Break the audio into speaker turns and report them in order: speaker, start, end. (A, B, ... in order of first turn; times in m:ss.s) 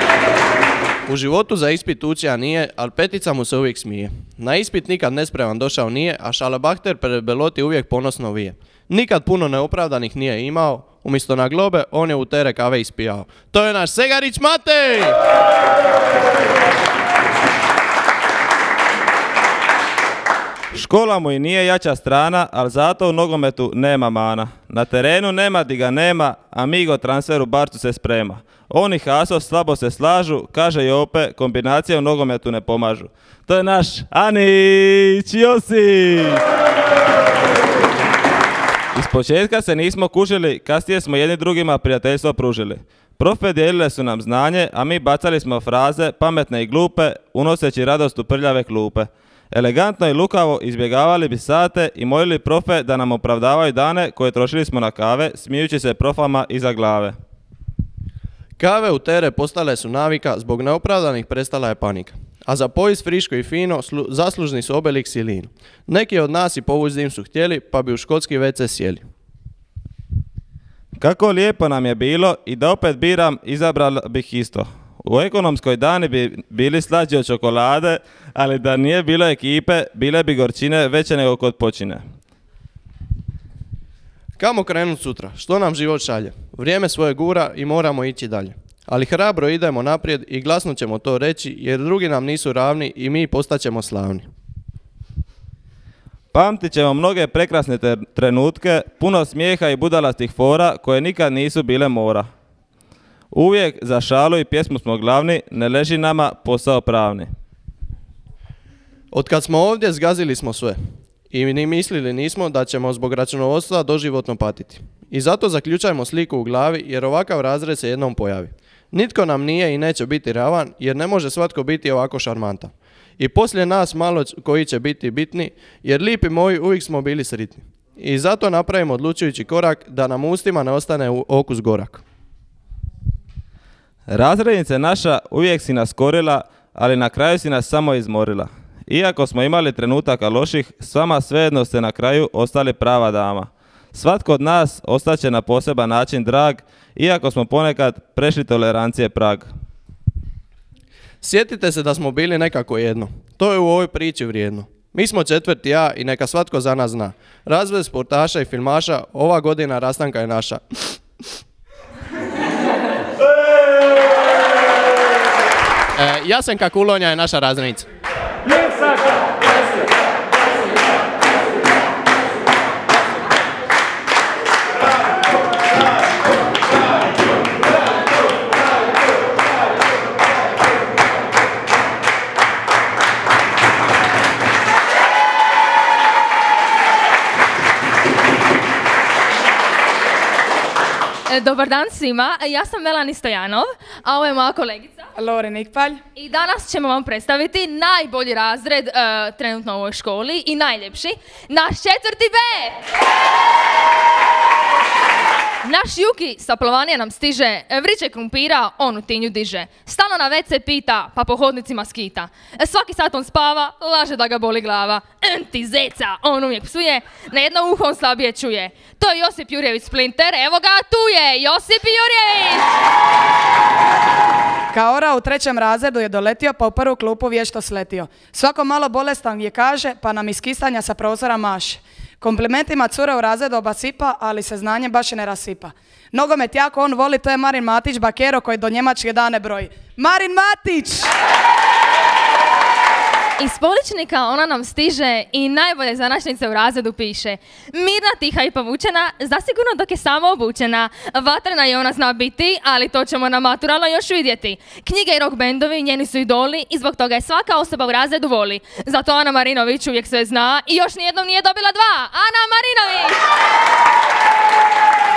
0:01.1-0:15.2 A
0:20.7-0:36.4 B
0:38.9-0:57.1 B
0:58.6-1:09.0 A
1:11.0-1:22.0 B
1:24.4-1:34.3 A
1:36.3-1:42.3 B
1:43.3-1:47.3 B
1:49.1-1:50.8 A
1:51.3-2:12.0 A
2:14.1-2:29.5 B
2:31.2-2:41.0 A
2:46.0-2:47.9 A
3:11.3-3:15.1 C
3:15.2-3:16.0 D
3:16.2-3:22.8 C
3:25.6-3:42.6 C
3:44.7-4:01.1 D
4:03.4-4:23.2 C